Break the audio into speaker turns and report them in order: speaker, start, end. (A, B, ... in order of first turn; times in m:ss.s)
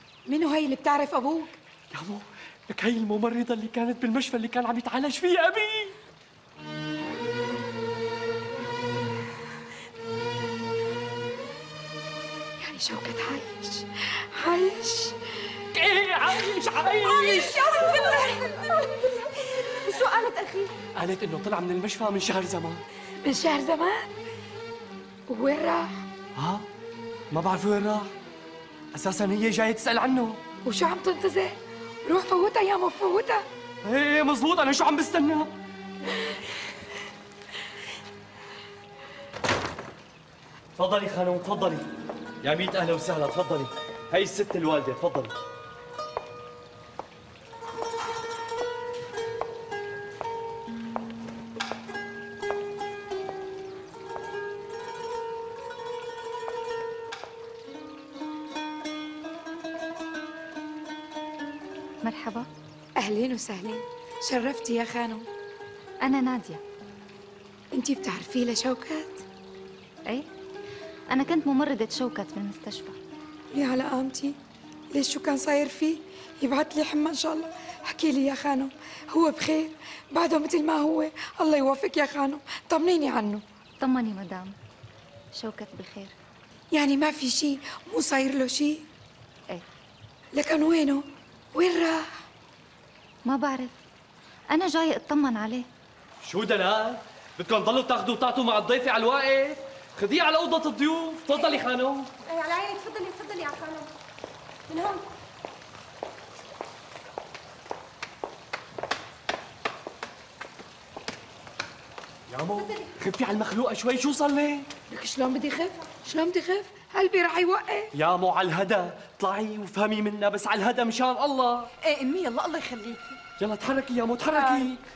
0:00.3-0:01.6 A
0:01.9-0:06.0 B
0:12.6-0:15.5 A
0:15.7-0:18.1 B
0:17.2-0:20.7 A
0:21.0-0:22.8 B
0:23.2-0:24.1 A
0:25.3-0:26.0 A
0:26.4-0:26.6 B
0:27.3-0:28.1 B
0:28.9-0:30.4 B
0:30.6-0:33.4 A
0:33.8-0:35.5 B
0:40.8-0:41.9 B
0:42.4-0:45.4 B
1:02.0-1:02.5 C
1:03.0-1:05.3 A
1:06.0-1:06.6 C
1:07.7-1:09.2 A
1:11.1-1:13.0 C
1:13.5-1:14.4 A
1:14.9-1:23.4 A
1:23.8-1:24.5 C
1:25.4-1:26.2 C
1:26.7-1:28.8 A
1:30.3-1:32.1 A
1:33.2-1:33.8 C
1:34.5-1:35.7 C
1:36.2-1:42.1 B
1:42.3-1:43.9 D
1:44.7-1:45.1 D
1:52.3-1:54.7 B
1:54.9-1:57.9 A
1:57.9-2:01.7 B
2:01.8-2:03.2 A
2:03.4-2:04.8 B
2:04.4-2:04.7 A